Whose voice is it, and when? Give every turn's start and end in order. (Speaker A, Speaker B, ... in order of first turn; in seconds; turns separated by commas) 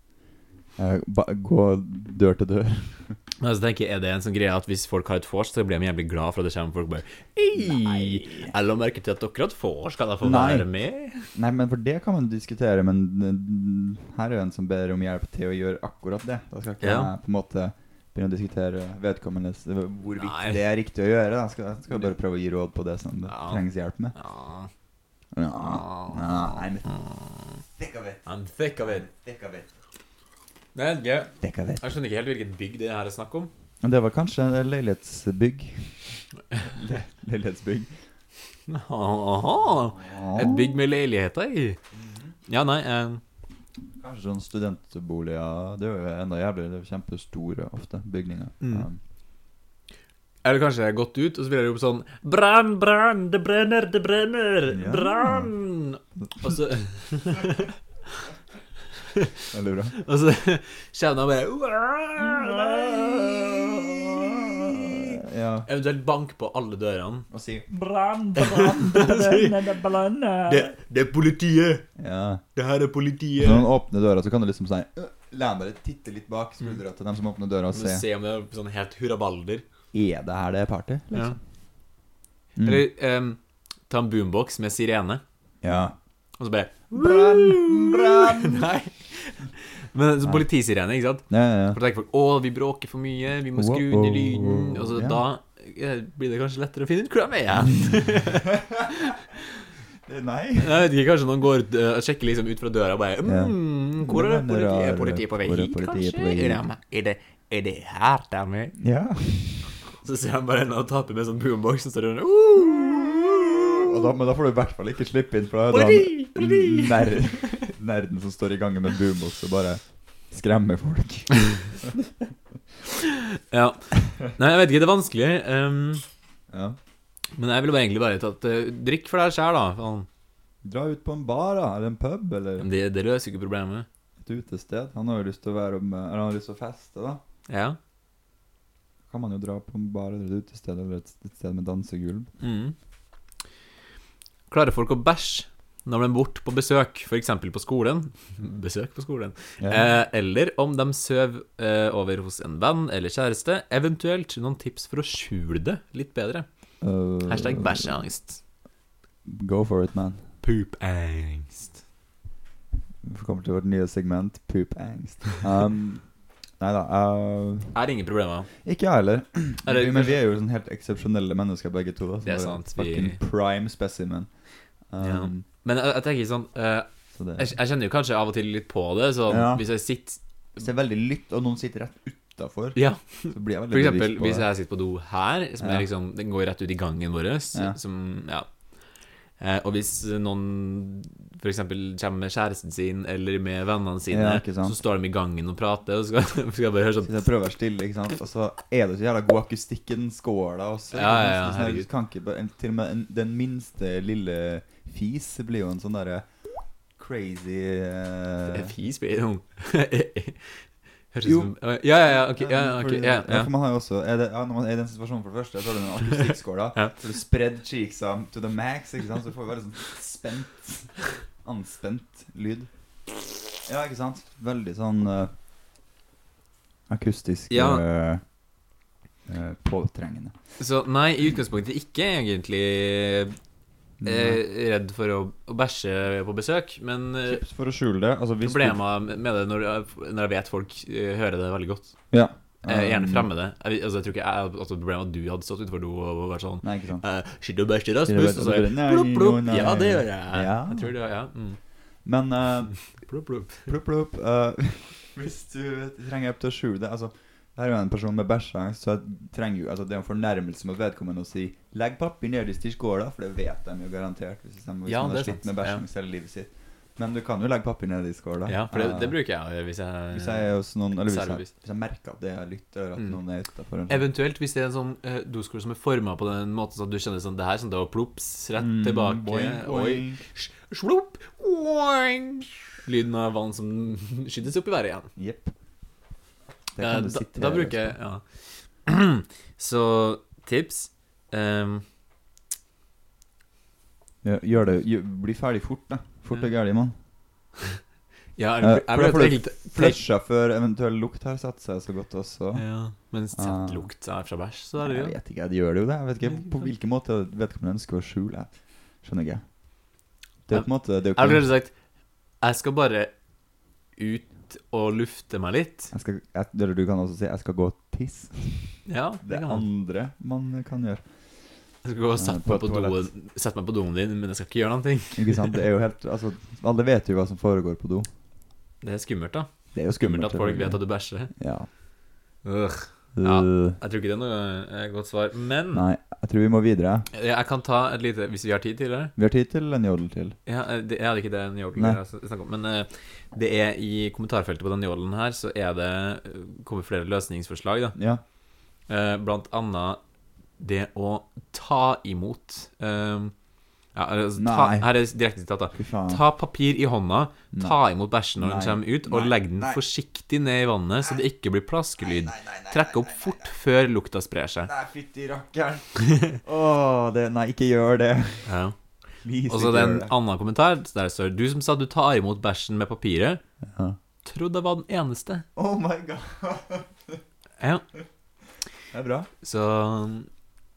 Speaker A: 0.8-3.1, Speaker B: 3.4-11.3, Speaker A: 7.5-8.5, Speaker A: 10.2-10.7, Speaker A: 11.3-24.1, Speaker B: 16.8-17.1, Speaker B: 20.2-20.6, Speaker B: 23.3-24.7, Speaker A: 25.3-27.0, Speaker B: 25.6-27.6, Speaker A: 27.8-28.2, Speaker B: 28.2-29.1, Speaker A: 28.8-29.7, Speaker B: 30.7-33.5, Speaker A: 31.4-31.8, Speaker A: 33.8-37.9, Speaker B: 38.7-41.8, Speaker A: 39.9-40.7, Speaker A: 42.0-42.3, Speaker B: 42.5-43.2, Speaker A: 44.0-49.0, Speaker B: 48.6-48.9, Speaker B: 50.4-58.2, Speaker A: 54.7-55.5, Speaker A: 59.5-59.9, Speaker B: 59.9-67.3, Speaker A: 62.2-65.7, Speaker A: 67.3-67.7, Speaker C: 67.7-70.7, Speaker B: 68.5-69.5, Speaker B: 70.5-71.9, Speaker A: 72.0-72.4, Speaker B: 72.5-73.7, Speaker A: 73.4-78.0, Speaker B: 77.7-79.6, Speaker A: 79.9-81.4, Speaker A: 82.6-82.8, Speaker B: 82.6-85.2, Speaker A: 85.6-86.0, Speaker B: 86.4-99.3, Speaker A: 86.9-88.7, Speaker A: 90.2-90.5, Speaker A: 91.3-91.8, Speaker A: 93.5-95.2, Speaker A: 98.3-98.9, Speaker A: 100.0-100.8, Speaker B: 100.6-108.7, Speaker A: 103.2-106.6, Speaker A: 108.8-109.7, Speaker B: 110.0-113.9, Speaker A: 113.6-122.0, Speaker B: 115.7-117.7, Speaker B: 122.9-126.0, Speaker A: 126.5-126.8, Speaker B: 127.3-130.1, Speaker A: 130.6-132.7, Speaker B: 132.6-133.9, Speaker A: 134.2-137.2, Speaker B: 137.5-137.8, Speaker A: 139.1-142.3, Speaker B: 142.4-142.7, Speaker B: 144.5-156.5, Speaker A: 156.8-157.9, Speaker B: 157.2-158.4, Speaker A: 159.2-160.2, Speaker B: 160.4-161.7, Speaker A: 163.0-166.0, Speaker A: 166.6-167.8, Speaker B: 167.7-168.5, Speaker A: 168.6-174.3, Speaker B: 169.7-170.2, Speaker B: 172.2-173.2, Speaker A: 174.9-175.4, Speaker B: 175.0-180.2, Speaker A: 177.2-177.5, Speaker A: 179.3-179.7, Speaker A: 180.6-182.8, Speaker B: 182.7-188.5, Speaker A: 183.3-184.5, Speaker A: 185.6-185.8, Speaker B: 189.4-197.2, Speaker A: 194.1-194.8, Speaker A: 197.0-206.3, Speaker B: 200.9-201.8, Speaker A: 207.0-208.7, Speaker B: 208.5-213.5, Speaker A: 211.2-211.5, Speaker A: 212.1-222.7, Speaker A: 223.6-225.3, Speaker A: 226.9-228.2, Speaker B: 227.5-227.8, Speaker A: 229.3-230.3, Speaker B: 230.6-233.4, Speaker A: 234.0-234.4, Speaker B: 234.0-237.4, Speaker A: 237.3-238.8, Speaker B: 238.4-241.9, Speaker A: 242.1-243.3, Speaker B: 242.6-251.6, Speaker A: 246.6-247.0, Speaker A: 248.0-250.9, Speaker A: 252.0-252.8, Speaker B: 252.9-253.7, Speaker A: 253.6-269.2, Speaker B: 264.9-265.8, Speaker B: 268.4-270.5, Speaker A: 270.1-274.0, Speaker B: 271.1-271.5, Speaker B: 273.9-285.1, Speaker A: 278.6-280.2, Speaker A: 285.1-285.5, Speaker A: 286.8-287.9, Speaker B: 286.8-288.2, Speaker B: 288.9-291.8, Speaker A: 294.2-296.9, Speaker B: 298.4-300.0, Speaker A: 298.6-302.6, Speaker B: 302.5-305.2, Speaker A: 303.3-303.9, Speaker A: 304.8-308.5, Speaker A: 309.0-309.4, Speaker A: 310.5-311.5, Speaker B: 310.5-311.7, Speaker B: 312.4-313.1, Speaker B: 314.0-315.9, Speaker A: 315.9-321.0, Speaker B: 318.9-319.6, Speaker B: 321.8-325.6, Speaker A: 322.2-323.1, Speaker A: 325.1-328.1, Speaker B: 328.8-329.5, Speaker A: 329.7-330.8, Speaker B: 330.0-331.3, Speaker A: 331.3-331.7, Speaker B: 332.4-335.8, Speaker A: 333.1-333.8, Speaker A: 335.7-337.1, Speaker B: 337.1-339.1, Speaker A: 339.1-340.4, Speaker B: 340.4-348.0, Speaker A: 347.9-348.2, Speaker B: 348.9-350.0, Speaker B: 350.6-353.3, Speaker B: 353.9-364.7, Speaker A: 354.4-354.9, Speaker A: 355.7-356.2, Speaker A: 358.4-359.8, Speaker A: 362.0-363.5, Speaker A: 364.6-368.5, Speaker B: 368.4-368.7, Speaker A: 369.2-370.1, Speaker B: 369.5-373.4, Speaker A: 373.6-374.0, Speaker B: 374.2-375.4, Speaker A: 375.6-377.2, Speaker B: 377.6-377.8, Speaker A: 378.9-379.3, Speaker B: 379.4-380.3